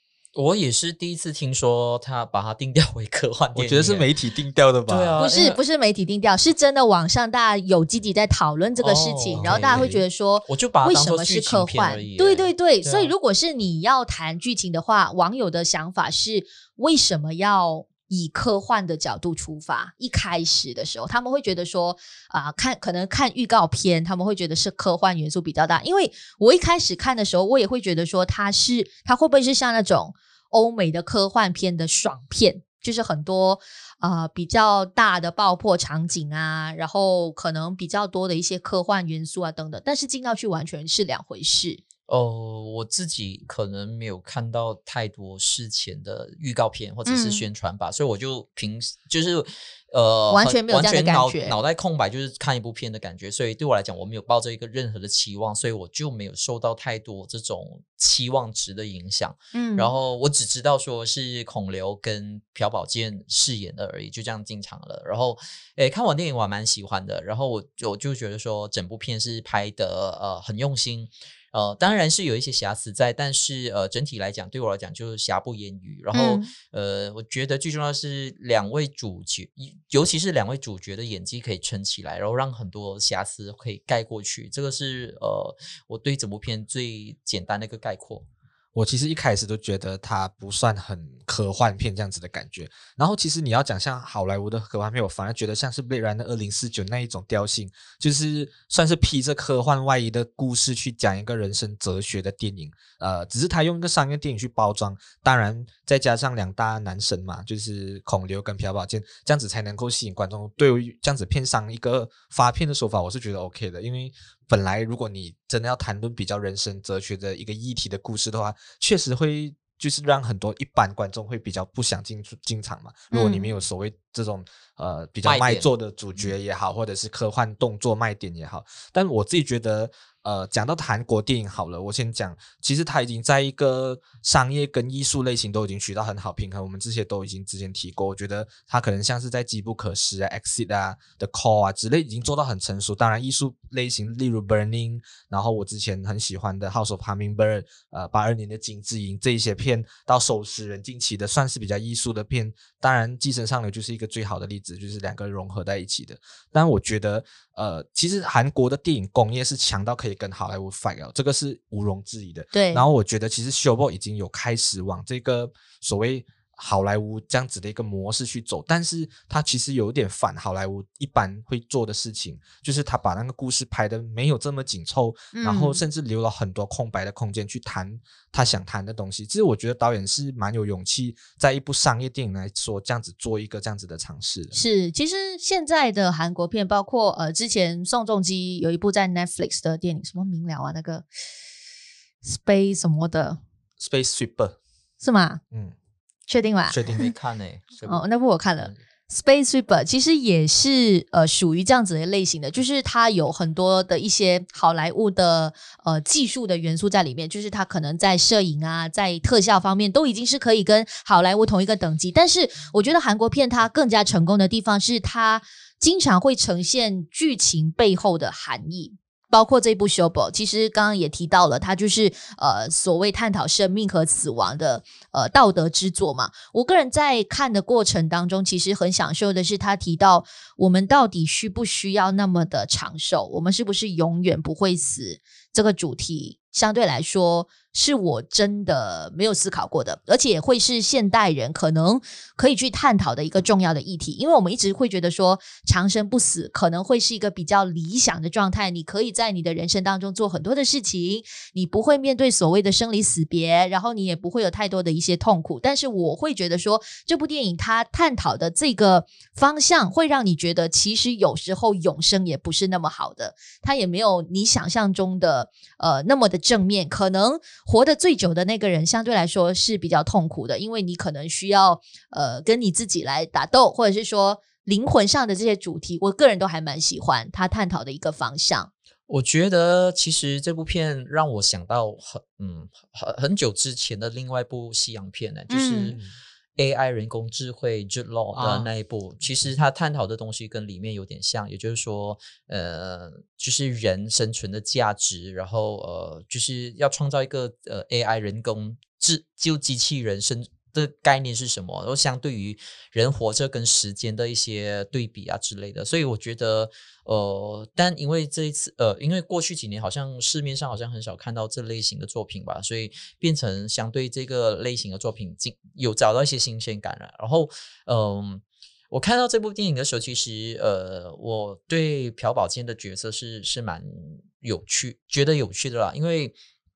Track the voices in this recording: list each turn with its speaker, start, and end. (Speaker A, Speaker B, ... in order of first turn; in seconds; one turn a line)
Speaker A: 0.3-4.1
Speaker B: 3.5-5.2
Speaker A: 4.9-5.6
Speaker C: 5.2-41.8
Speaker A: 8.8-13.1
Speaker B: 9.3-10.0
Speaker A: 42.1-88.2
Speaker C: 47.0-47.5
Speaker C: 50.3-51.5
Speaker C: 59.5-59.9
Speaker C: 76.1-76.5
Speaker B: 88.7-184.6
Speaker C: 123.1-123.5
Speaker A: 125.2-126.3
Speaker C: 162.5-162.8
Speaker C: 175.3-175.8
Speaker C: 184.5-191.1
Speaker C: 192.2-193.4
Speaker B: 193.8-194.6
Speaker C: 195.0-195.4
Speaker C: 196.3-197.1
Speaker B: 196.7-197.1
Speaker A: 196.8-198.1
Speaker C: 197.8-278.7
Speaker A: 279.1-286.0
Speaker C: 285.5-285.9
Speaker A: 286.6-326.4
Speaker B: 288.3-288.7